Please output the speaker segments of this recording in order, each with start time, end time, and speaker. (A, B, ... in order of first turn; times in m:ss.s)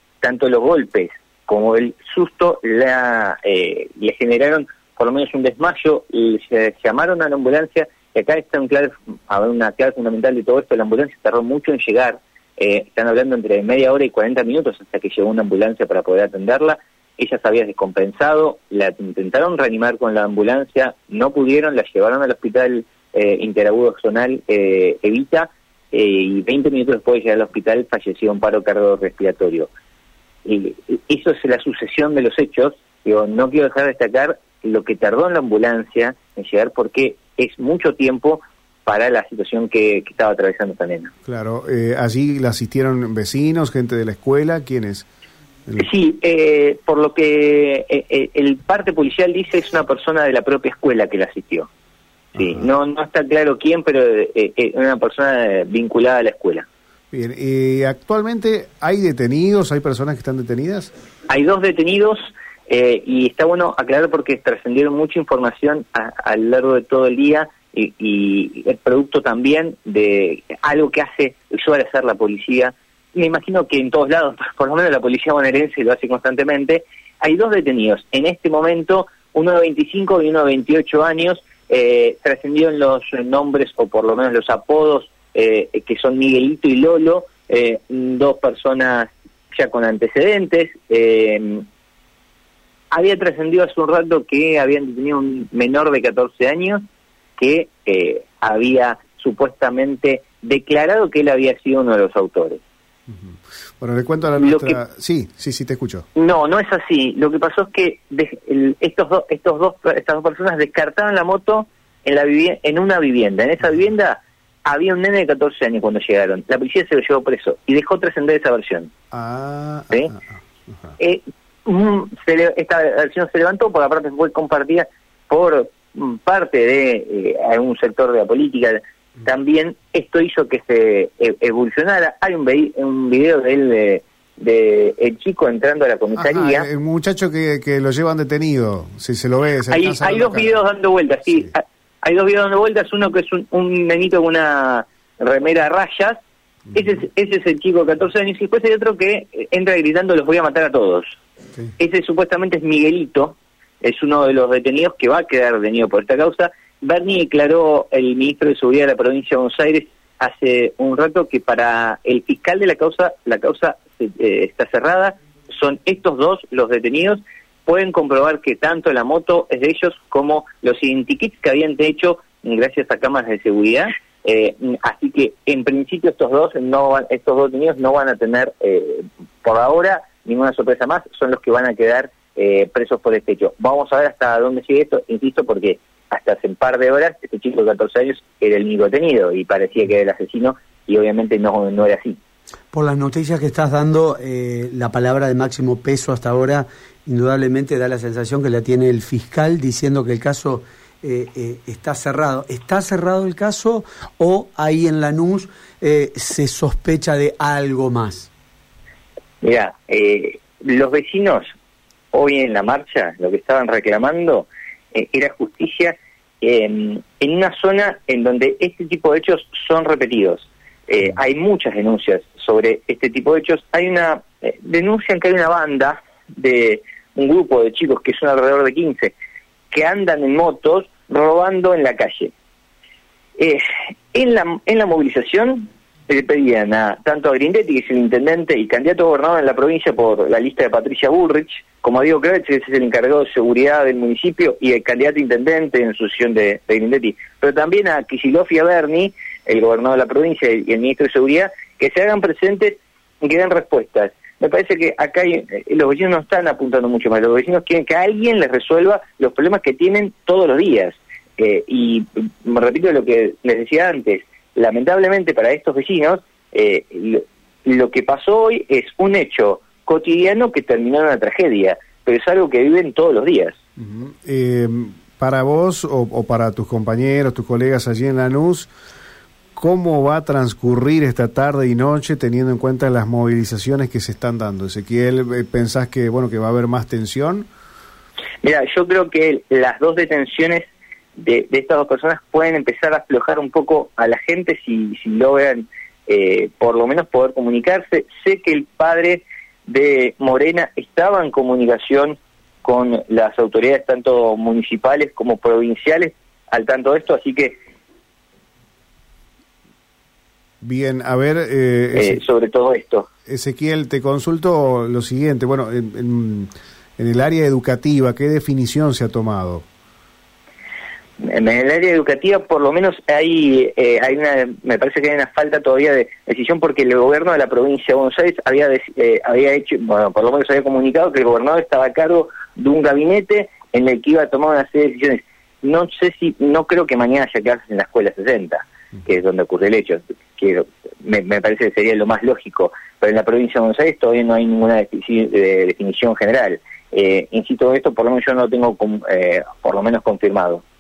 0:00.2-0:29.7 A
0:30.4-0:41.1 A
0:41.2-0:45.1 B
0:45.8-0:51.7 A
0:52.4-0:56.6 A
0:57.1-1:00.9 B
1:01.3-1:31.6 A
1:32.9-1:36.8 A
1:37.4-1:42.6 A
1:43.1-1:46.0 B
1:44.4-1:44.8 A
1:46.2-1:58.9 A
1:59.1-2:00.2 B
2:01.0-2:16.7 A
2:16.2-2:20.6 B
2:19.7-2:26.2 A
2:26.7-2:31.1 A
2:31.8-3:12.2 A
3:12.7-3:28.3 C
3:29.4-3:31.5 A
3:32.1-3:49.1 A
3:49.7-3:52.3 A
3:54.1-4:33.6 A
4:33.8-4:38.7 B
4:39.6-4:47.5 B
4:48.4-4:50.6 A
4:51.2-5:07.6 A
5:10.6-5:12.2 B
5:11.9-5:13.1 A
5:13.3-5:19.6 B
5:21.2-5:50.6 A